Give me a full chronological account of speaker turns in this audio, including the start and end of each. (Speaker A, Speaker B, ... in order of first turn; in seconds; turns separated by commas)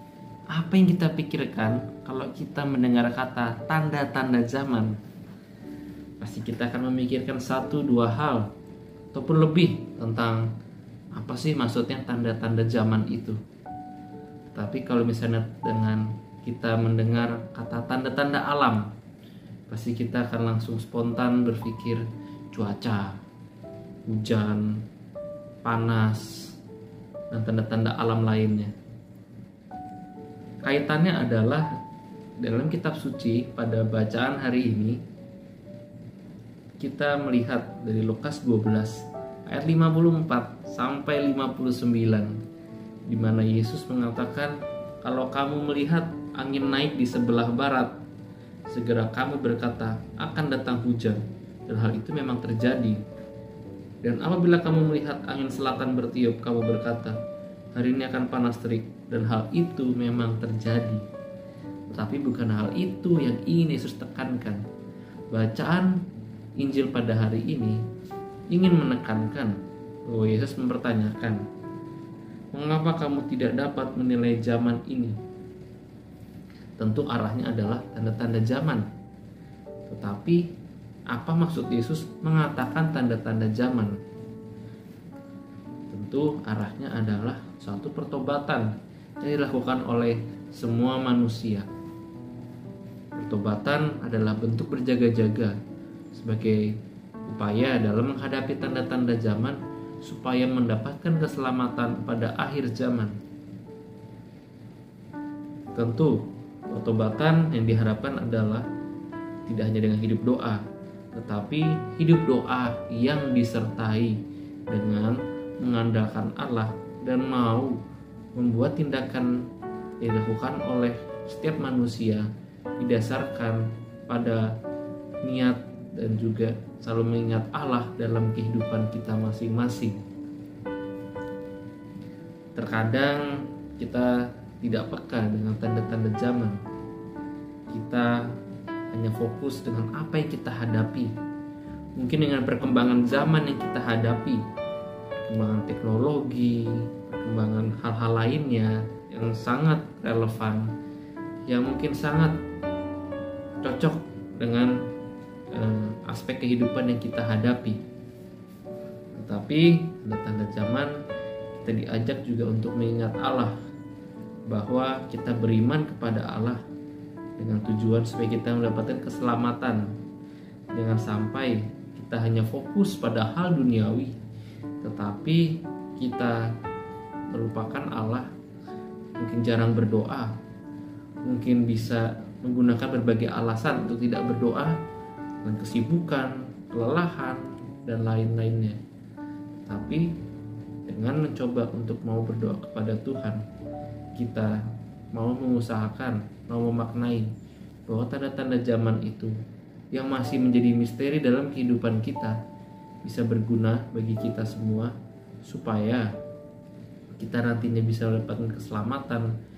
Speaker A: 0.5-5.0, Speaker A: 6.2-8.5, Speaker A: 9.1-10.5, Speaker A: 11.1-13.4, Speaker A: 14.5-18.9, Speaker A: 19.7-23.2, Speaker A: 24.1-24.8, Speaker A: 25.6-26.5, Speaker A: 27.3-28.7, Speaker A: 30.6-31.7, Speaker A: 32.4-35.0, Speaker A: 36.8-42.3, Speaker A: 43.1-47.9, Speaker A: 48.7-53.0, Speaker A: 54.0-57.2, Speaker A: 57.7-61.0, Speaker A: 61.9-64.6, Speaker A: 65.3-65.9, Speaker A: 66.6-67.8, Speaker A: 68.5-69.5, Speaker A: 70.0-71.4, Speaker A: 72.5-75.2, Speaker A: 76.8-78.8, Speaker A: 79.9-80.4, Speaker A: 81.1-84.0, Speaker A: 85.9-91.7, Speaker A: 93.2-95.5, Speaker A: 96.1-96.7, Speaker A: 97.3-103.1, Speaker A: 105.7-108.6, Speaker A: 109.5-110.6, Speaker A: 111.1-117.8, Speaker A: 118.3-119.3, Speaker A: 120.0-122.3, Speaker A: 122.8-124.5, Speaker A: 125.2-130.0, Speaker A: 132.6-136.6, Speaker A: 137.7-138.2, Speaker A: 138.9-141.1, Speaker A: 142.0-144.4, Speaker A: 145.2-150.7, Speaker A: 151.5-152.3, Speaker A: 153.6-154.7, Speaker A: 155.5-157.8, Speaker A: 159.1-160.9, Speaker A: 161.6-163.5, Speaker A: 164.5-166.6, Speaker A: 167.4-169.9, Speaker A: 170.7-174.2, Speaker A: 174.8-176.4, Speaker A: 177.3-178.3, Speaker A: 179.2-180.3, Speaker A: 181.2-184.7, Speaker A: 185.4-188.8, Speaker A: 189.6-190.1, Speaker A: 190.9-193.4, Speaker A: 194.2-194.6, Speaker A: 195.1-197.3, Speaker A: 197.9-199.3, Speaker A: 199.9-202.3, Speaker A: 203.0-204.9, Speaker A: 205.4-206.1, Speaker A: 207.2-209.3